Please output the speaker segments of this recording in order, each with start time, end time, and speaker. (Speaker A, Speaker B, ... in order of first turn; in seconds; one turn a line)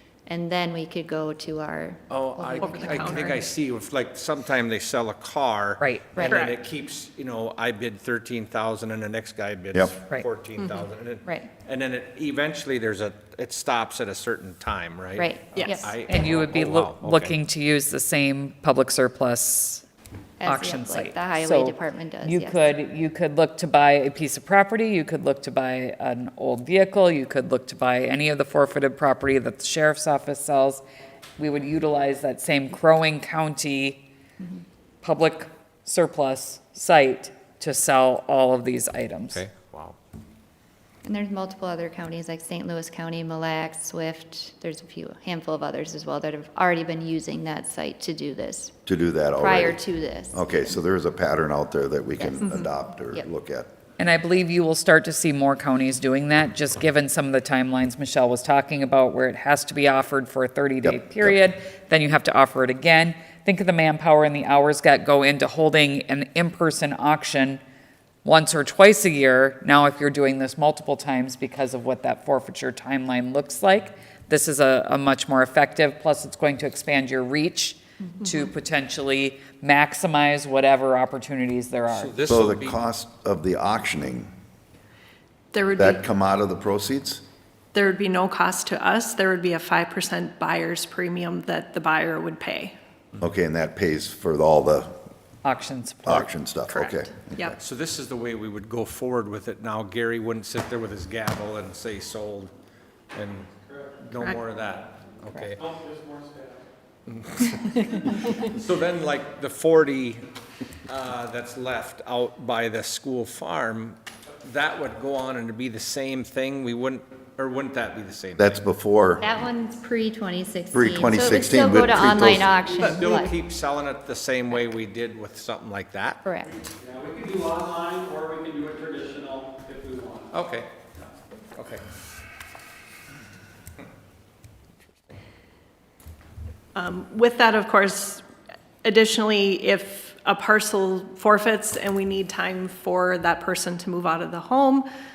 Speaker A: 0.2-3.5
Speaker B: 2.1-17.4
Speaker C: 2.6-3.4
Speaker D: 5.8-6.2
Speaker C: 6.2-6.6
Speaker C: 10.6-10.8
Speaker A: 15.2-15.9
Speaker C: 15.6-15.9
Speaker D: 16.1-19.9
Speaker A: 20.4-22.8
Speaker D: 20.4-30.8
Speaker D: 31.4-34.0
Speaker D: 35.0-39.4
Speaker B: 39.3-40.0
Speaker A: 41.0-48.7
Speaker E: 48.9-49.8
Speaker A: 49.4-50.8
Speaker E: 50.3-53.7
Speaker A: 52.2-52.5
Speaker D: 54.0-67.6
Speaker E: 60.8-61.4
Speaker D: 68.2-82.2
Speaker B: 81.9-82.8
Speaker E: 82.2-84.3
Speaker C: 85.5-86.0
Speaker E: 85.8-87.2
Speaker C: 87.7-92.8
Speaker E: 93.2-94.9
Speaker D: 95.4-96.3
Speaker E: 96.0-97.5
Speaker C: 96.7-97.5
Speaker B: 97.5-102.5
Speaker B: 103.1-105.6
Speaker F: 105.6-106.6
Speaker B: 107.1-110.2
Speaker B: 110.9-118.5
Speaker E: 118.4-119.2
Speaker A: 119.2-123.3
Speaker E: 120.7-122.5
Speaker B: 122.8-126.2
Speaker A: 126.2-126.5
Speaker F: 126.8-130.3
Speaker B: 130.3-130.7
Speaker B: 131.6-131.8
Speaker C: 136.7-138.2
Speaker C: 138.8-144.9